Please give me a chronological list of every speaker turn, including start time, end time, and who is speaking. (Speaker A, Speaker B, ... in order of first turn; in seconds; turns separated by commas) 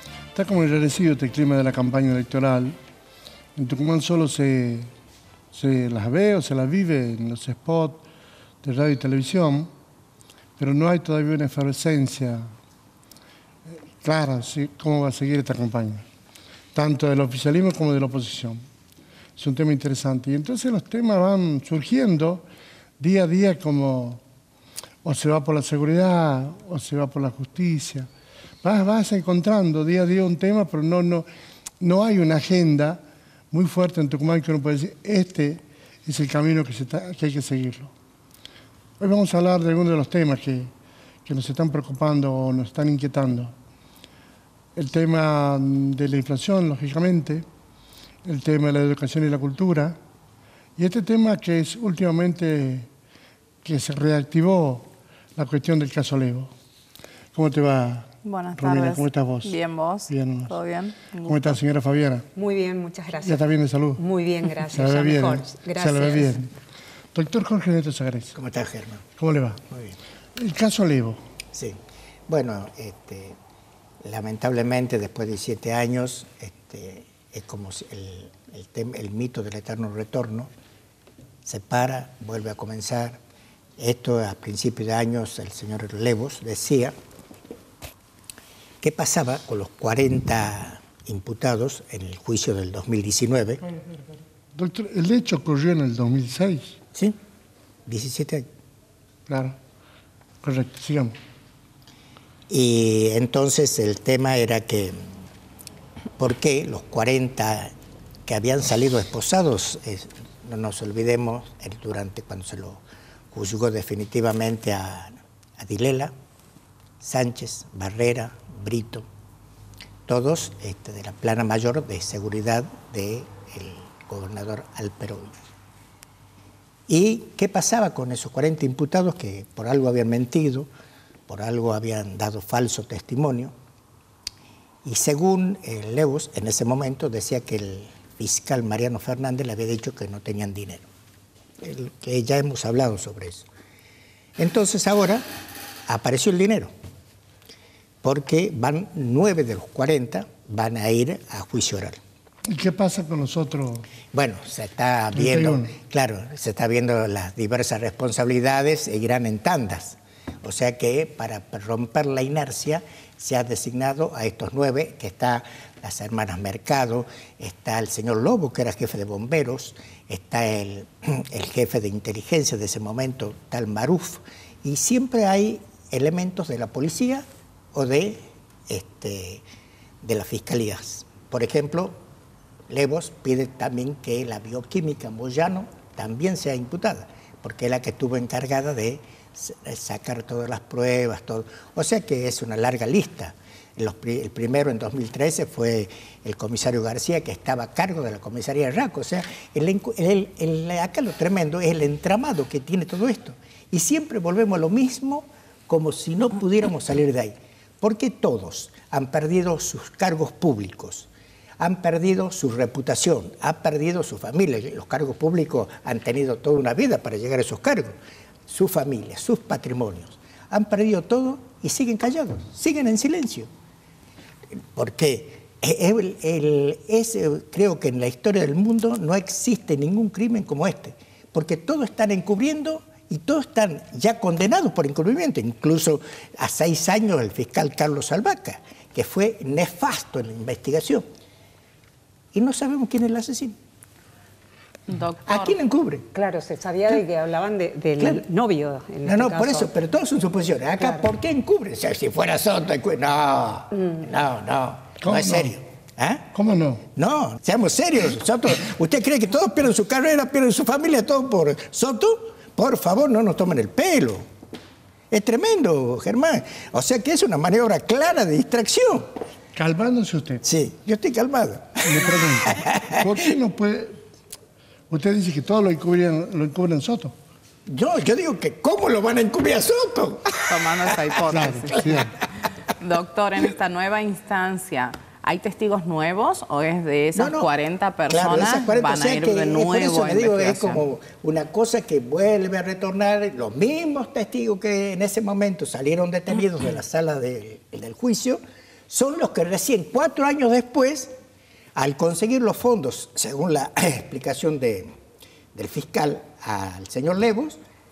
Speaker A: 0.3-2.8, Speaker A: 3.6-4.9, Speaker A: 5.5-8.0, Speaker A: 8.6-9.7, Speaker A: 10.6-12.5, Speaker A: 14.0-16.0, Speaker A: 16.7-18.6, Speaker A: 19.4-22.5, Speaker A: 23.0-24.2, Speaker A: 25.0-28.1, Speaker A: 28.6-31.3, Speaker A: 31.8-37.9, Speaker A: 39.0-40.7, Speaker A: 41.3-43.5, Speaker A: 44.8-47.5, Speaker A: 48.2-50.0, Speaker A: 50.8-52.9, Speaker A: 53.6-56.5, Speaker A: 57.4-60.6, Speaker B: 58.2-61.6, Speaker A: 61.2-62.3, Speaker C: 62.4-66.3, Speaker A: 63.2-64.0, Speaker A: 64.6-66.5, Speaker A: 67.1-68.3, Speaker D: 68.3-69.0, Speaker A: 69.2-69.6, Speaker D: 69.7-70.0, Speaker A: 70.4-71.2, Speaker D: 71.5-73.4, Speaker D: 74.0-80.5, Speaker D: 81.5-83.2, Speaker D: 83.8-86.9, Speaker D: 88.8-93.6, Speaker A: 94.5-96.8, Speaker D: 97.9-98.5, Speaker A: 99.3-99.6, Speaker A: 100.4-101.2, Speaker D: 102.5-105.0, Speaker D: 106.2-107.7, Speaker D: 108.3-116.1, Speaker D: 117.0-119.1, Speaker D: 120.1-125.3, Speaker D: 126.9-130.7, Speaker D: 131.3-133.5, Speaker D: 134.8-140.8, Speaker D: 141.6-143.5, Speaker D: 144.4-145.2, Speaker D: 145.9-146.7, Speaker D: 148.0-152.0, Speaker A: 152.5-153.9, Speaker D: 154.1-179.4, Speaker A: 155.1-155.7, Speaker D: 180.0-182.0, Speaker D: 182.7-211.1, Speaker D: 211.6-217.9, Speaker D: 218.5-223.5, Speaker D: 224.7-241.1, Speaker D: 242.3-243.6, Speaker B: 244.9-245.6, Speaker D: 245.3-246.1, Speaker C: 246.1-249.7, Speaker D: 248.0-248.2, Speaker D: 249.0-256.3, Speaker C: 250.8-251.1, Speaker A: 255.0-255.6, Speaker A: 256.3-256.8, Speaker D: 256.9-264.2, Speaker D: 265.1-269.1, Speaker A: 269.6-270.4, Speaker D: 270.4-273.0, Speaker A: 271.9-274.0, Speaker A: 274.9-277.1, Speaker D: 277.7-281.1, Speaker B: 280.4-282.2, Speaker A: 281.3-282.1, Speaker B: 282.8-290.8, Speaker D: 287.1-287.5, Speaker D: 288.1-301.1, Speaker D: 301.8-304.9, Speaker D: 305.5-307.6